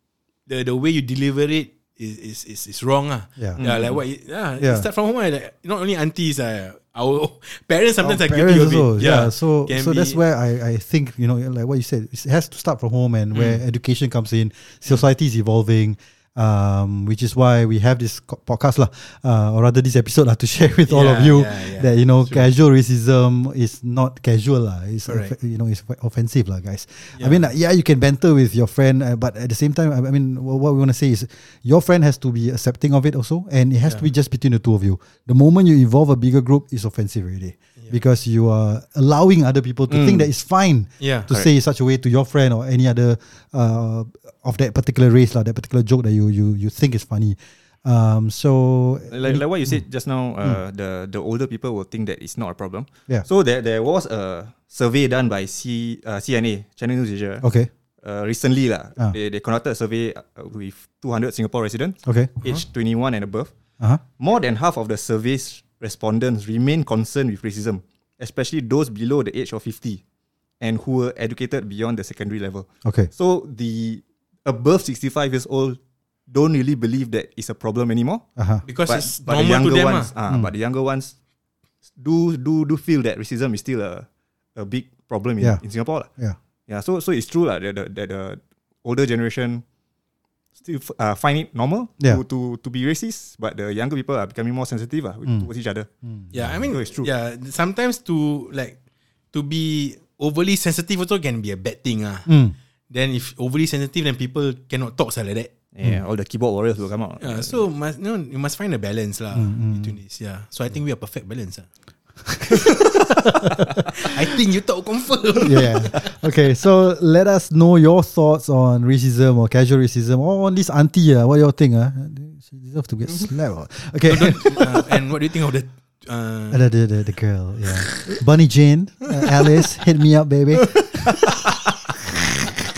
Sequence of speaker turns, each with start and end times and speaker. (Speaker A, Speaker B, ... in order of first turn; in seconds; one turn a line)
Speaker A: 0.5-10.2
Speaker B: 3.6-4.0
Speaker C: 4.6-4.9
Speaker C: 8.0-49.8
Speaker A: 13.3-13.6
Speaker A: 20.9-22.5
Speaker A: 25.1-25.4
Speaker A: 27.1-27.5
Speaker B: 39.9-40.3
Speaker A: 41.0-41.3
Speaker B: 49.1-57.5
Speaker C: 57.4-57.7
Speaker B: 58.0-70.0
Speaker C: 62.0-62.3
Speaker B: 70.6-81.2
Speaker C: 72.8-73.1
Speaker C: 78.4-78.6
Speaker A: 78.7-80.1
Speaker B: 82.0-89.6
Speaker C: 85.4-86.4
Speaker B: 90.6-95.9
Speaker C: 96.0-96.7
Speaker A: 96.3-98.8
Speaker B: 96.7-97.1
Speaker A: 99.3-102.3
Speaker C: 102.3-102.5
Speaker A: 102.9-105.5
Speaker B: 105.7-107.6
Speaker A: 107.2-111.7
Speaker C: 109.3-110.0
Speaker A: 114.0-116.1
Speaker C: 115.4-125.0
Speaker A: 124.1-126.6
Speaker C: 126.5-131.4